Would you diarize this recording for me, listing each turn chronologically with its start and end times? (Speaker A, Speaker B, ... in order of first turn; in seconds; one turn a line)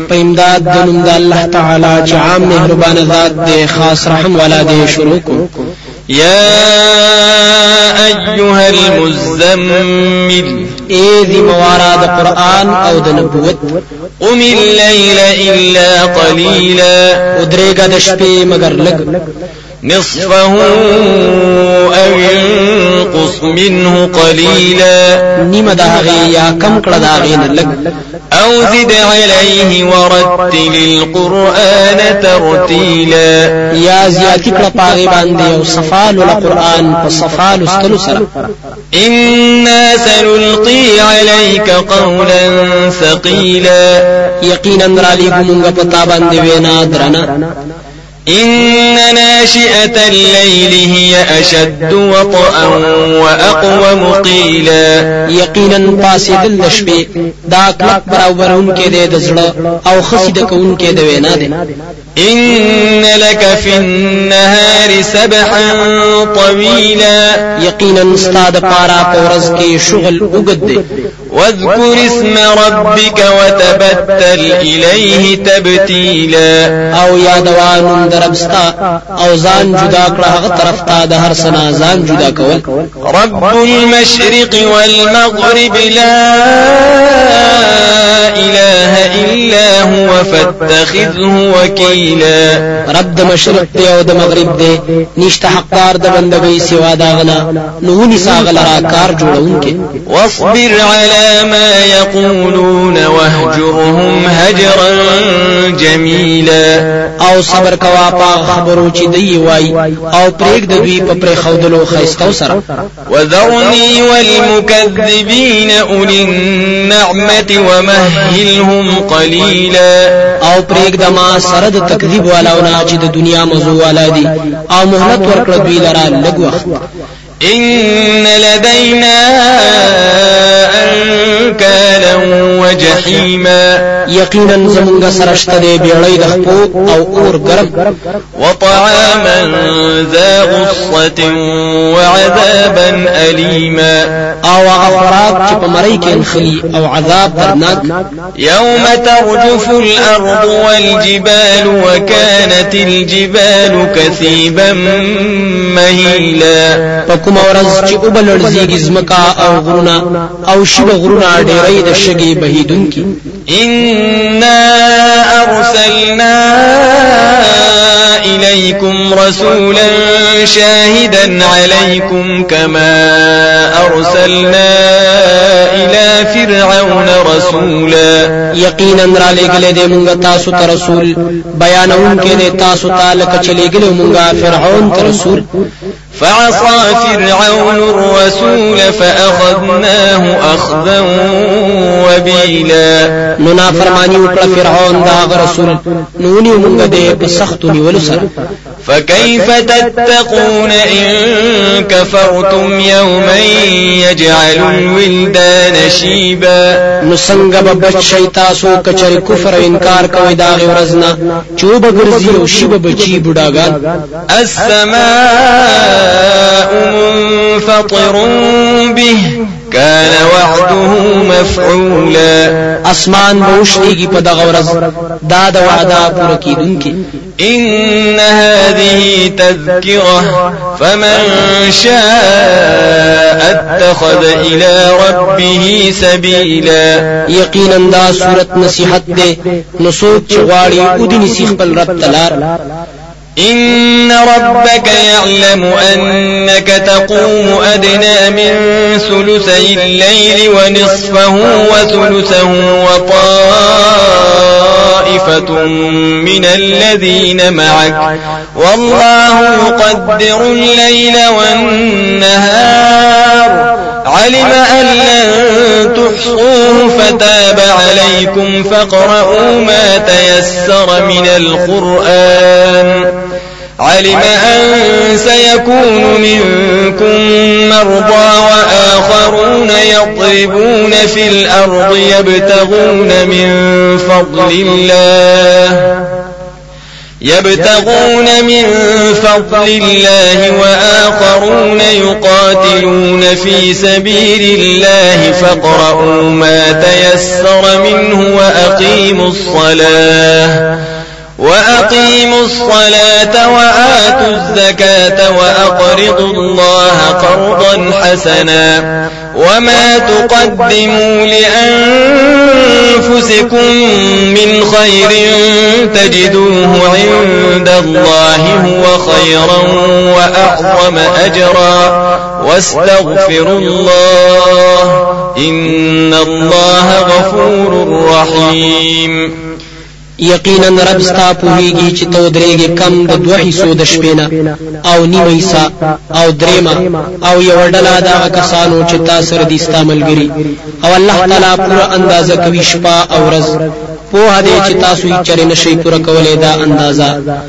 Speaker A: 0.1-5.5
Speaker B: 6.1-10.7
Speaker A: 10.9-13.7
Speaker B: 14.2-17.2
Speaker A: 17.4-19.1
Speaker B: 19.8-25.2
Speaker A: 25.4-27.8
Speaker B: 28.3-33.5
Speaker A: 33.8-38.3
Speaker B: 39.0-44.0
Speaker A: 44.4-47.3
Speaker B: 48.3-55.1
Speaker A: 55.3-61.5
Speaker B: 62.2-67.4
Speaker A: 67.6-70.8
Speaker B: 71.3-76.7
Speaker A: 77.0-82.7
Speaker B: 83.0-92.6
Speaker A: 92.9-99.8
Speaker B: 100.1-106.8
Speaker A: 107.2-112.6
Speaker B: 113.1-120.1
Speaker A: 120.4-126.7
Speaker B: 127.4-133.8
Speaker A: 134.1-137.8
Speaker B: 138.4-144.1
Speaker A: 144.4-147.9
Speaker B: 148.4-156.8
Speaker A: 157.1-163.1
Speaker B: 163.5-178.3
Speaker A: 178.6-185.4
Speaker B: 186.2-193.1
Speaker A: 193.4-198.3
Speaker B: 198.8-206.7
Speaker A: 207.0-213.8
Speaker B: 214.3-222.6
Speaker A: 222.8-227.0
Speaker B: 227.4-237.0
Speaker A: 237.3-242.4
Speaker B: 243.4-273.1
Speaker B: 273.8-286.0
Speaker B: 287.2-300.7
Speaker B: 301.4-329.3
Speaker A: 330.2-334.3
Speaker A: 334.8-343.6
Speaker A: 344.1-347.1